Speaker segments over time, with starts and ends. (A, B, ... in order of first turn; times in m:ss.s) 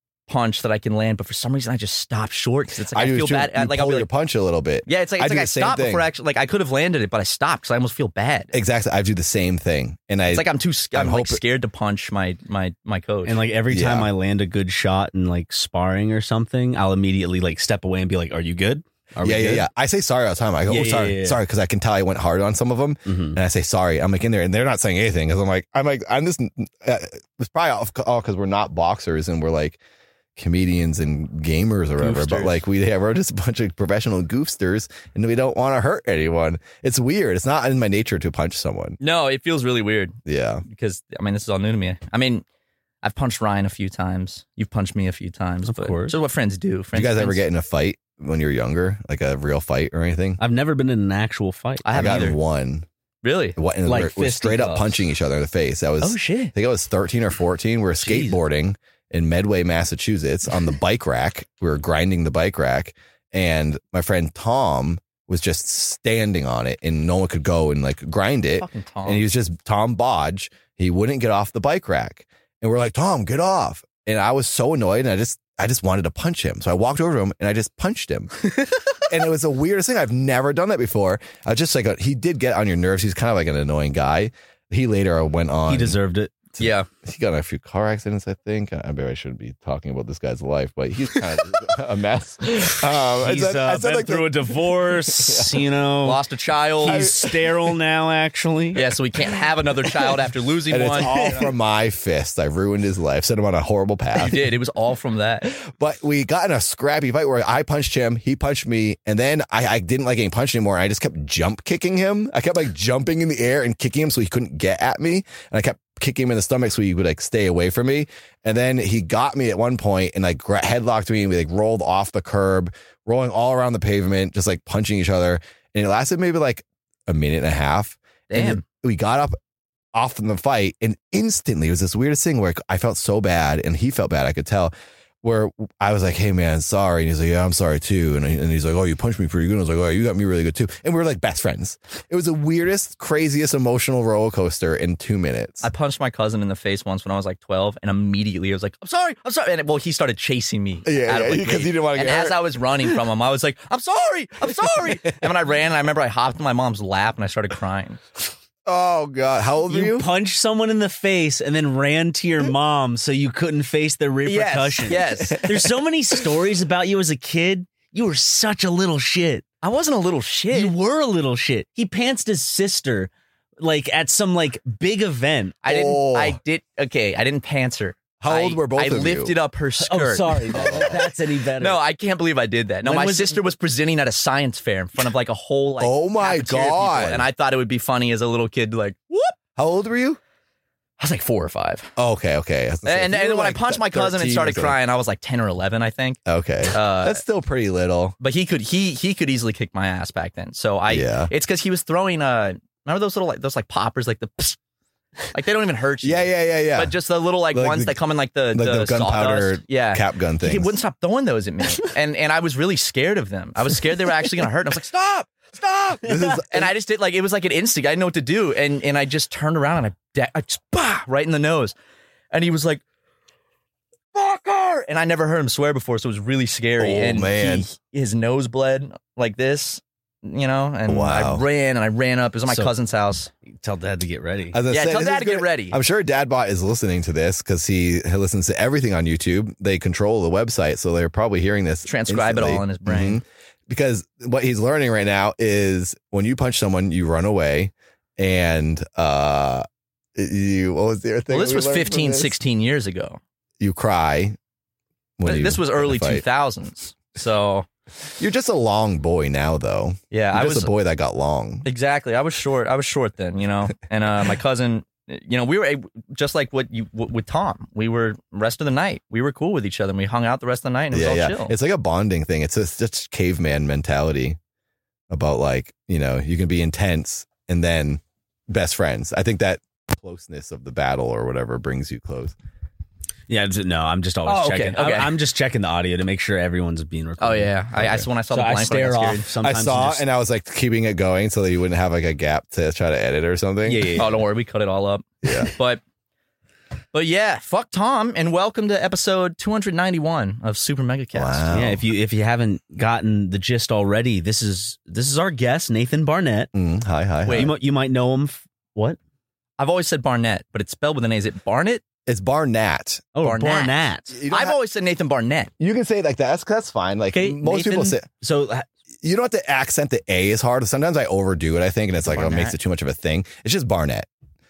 0:00.3-0:04.1 A
0:02.9-0:06.1 B
0:04.9-0:08.5 A
0:08.5-0:11.4 B
0:10.3-0:13.4 A
0:13.2-0:19.7 C
0:13.7-0:14.1 B
0:19.2-0:29.8 B
0:20.7-0:21.4 C
0:23.1-0:23.4 C
0:30.4-0:39.0 B
0:32.0-0:32.6 A
0:39.0-0:40.2 A
0:40.3-0:40.6 B
0:40.7-0:42.4 A
0:43.0-0:47.4 A
0:45.6-0:46.2 C
0:46.9-0:50.4 B
0:50.4-0:51.9 C
0:51.8-0:52.4 A
0:51.9-0:52.8 B
0:53.2-0:53.6 A
0:53.6-1:18.3 B
0:53.9-0:54.8 C
0:56.0-0:56.5 A
0:58.0-0:58.4 C
1:08.6-1:09.3 A
1:18.6-1:18.8 A
1:19.1-1:26.0 B
1:25.7-1:26.4 C
1:26.6-1:35.6 B
1:26.6-1:26.9 A
1:33.1-1:36.2 C
1:36.0-1:37.2 A
1:36.8-1:38.8 C
1:36.8-1:37.4 B
1:38.8-1:41.5 A
1:40.7-1:44.5 B
1:41.0-1:41.5 C
1:44.2-1:45.5 A
1:45.5-2:09.4 B
2:08.3-2:08.6 A
2:10.0-2:25.7 B
2:25.6-2:38.0 A
2:30.8-2:33.0 B
2:34.6-2:35.1 B
2:38.7-2:40.1 B
2:39.7-2:49.4 C
2:44.2-2:45.6 A
2:49.6-2:50.8 A
2:50.5-2:55.6 C
2:55.6-3:01.0 A
2:55.7-2:56.4 B
2:58.2-2:59.4 B
2:59.8-3:01.8 C
3:00.5-3:01.1 B
3:01.6-3:09.4 A
3:02.8-3:03.4 C
3:05.8-3:07.3 B
3:09.6-3:10.2 B
3:11.0-3:11.9 A
3:12.0-3:14.8 B
3:12.8-3:16.2 A
3:16.3-3:18.2 B
3:16.7-3:17.2 A
3:18.2-3:24.6 A
3:20.9-3:21.3 B
3:25.3-3:41.7 A
3:26.0-3:27.0 B
3:27.5-3:28.0 B
3:28.5-3:30.8 B
3:36.0-3:36.7 B
3:36.1-3:36.3 C
3:42.3-3:42.8 A
3:44.1-3:53.3 A
3:46.8-3:47.7 B
3:50.9-3:51.4 B
3:53.5-3:54.6 C
3:54.5-4:12.3 B
3:54.7-3:55.8 A
4:01.9-4:03.2 A
4:11.3-4:13.2 A
4:13.6-4:14.4 B
4:15.2-4:16.2 B
4:15.2-4:17.7 A
4:18.2-4:21.7 B
4:20.1-4:20.7 A
4:21.6-4:31.6 A
4:30.9-4:34.4 B
4:35.1-4:42.4 B
4:43.3-4:47.5 C
4:44.2-4:45.2 A
4:47.2-4:49.3 A
4:47.8-4:48.1 B
4:48.3-4:50.0 C
4:49.4-4:54.0 B
4:53.6-4:54.1 C
4:54.0-4:55.8 A
4:55.2-4:55.5 B
4:56.9-5:01.6 A
5:01.1-5:01.9 B
5:01.5-5:06.5 C
5:06.5-5:07.5 B
5:07.3-5:07.6 A
5:07.3-5:09.0 C
5:09.6-5:11.8 A
5:12.1-5:13.1 B
5:13.2-5:14.2 C
5:13.2-5:15.5 A
5:14.1-5:14.6 B
5:15.6-5:18.1 B
5:17.2-5:18.7 C
5:19.0-5:24.1 B
5:22.0-5:22.6 A